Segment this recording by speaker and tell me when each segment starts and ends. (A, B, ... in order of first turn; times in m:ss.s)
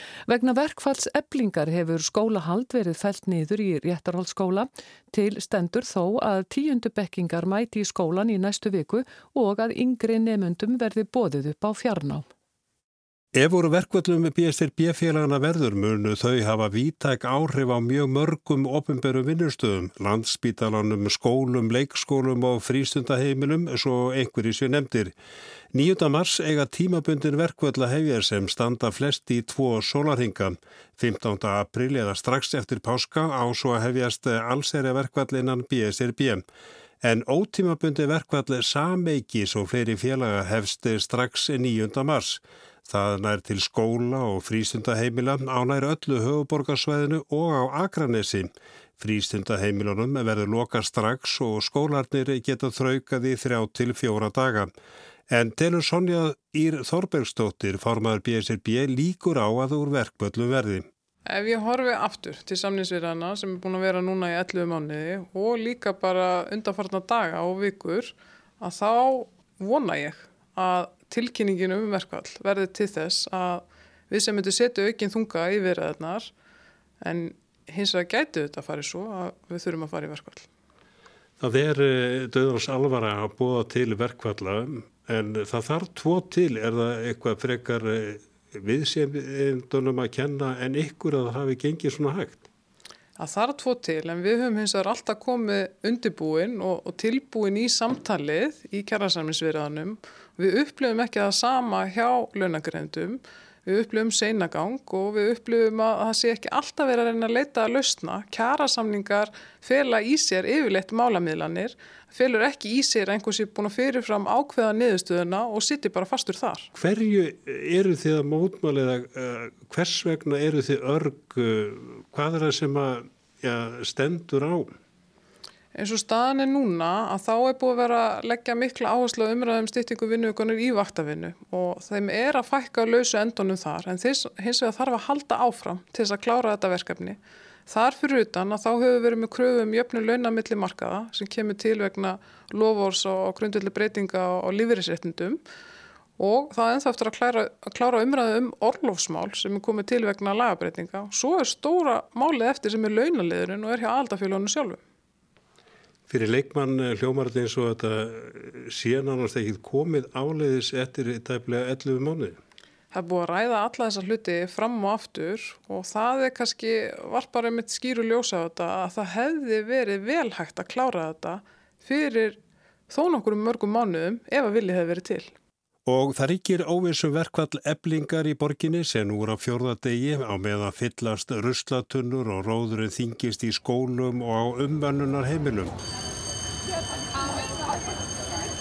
0:00.3-0:12.3 A
0:13.4-0:25.1 B
0:25.7-0:36.4 B
0:37.0-0:54.7 B
0:55.3-1:00.9 B
1:01.3-1:16.3 C
1:17.0-1:20.5 C
1:21.4-1:32.5 B
1:33.2-1:56.7 C
1:56.8-2:04.7 B
2:05.7-2:25.4 C
2:26.2-2:34.8 C
2:36.1-2:42.4 B
2:42.9-2:55.3 C
2:55.9-3:05.7 B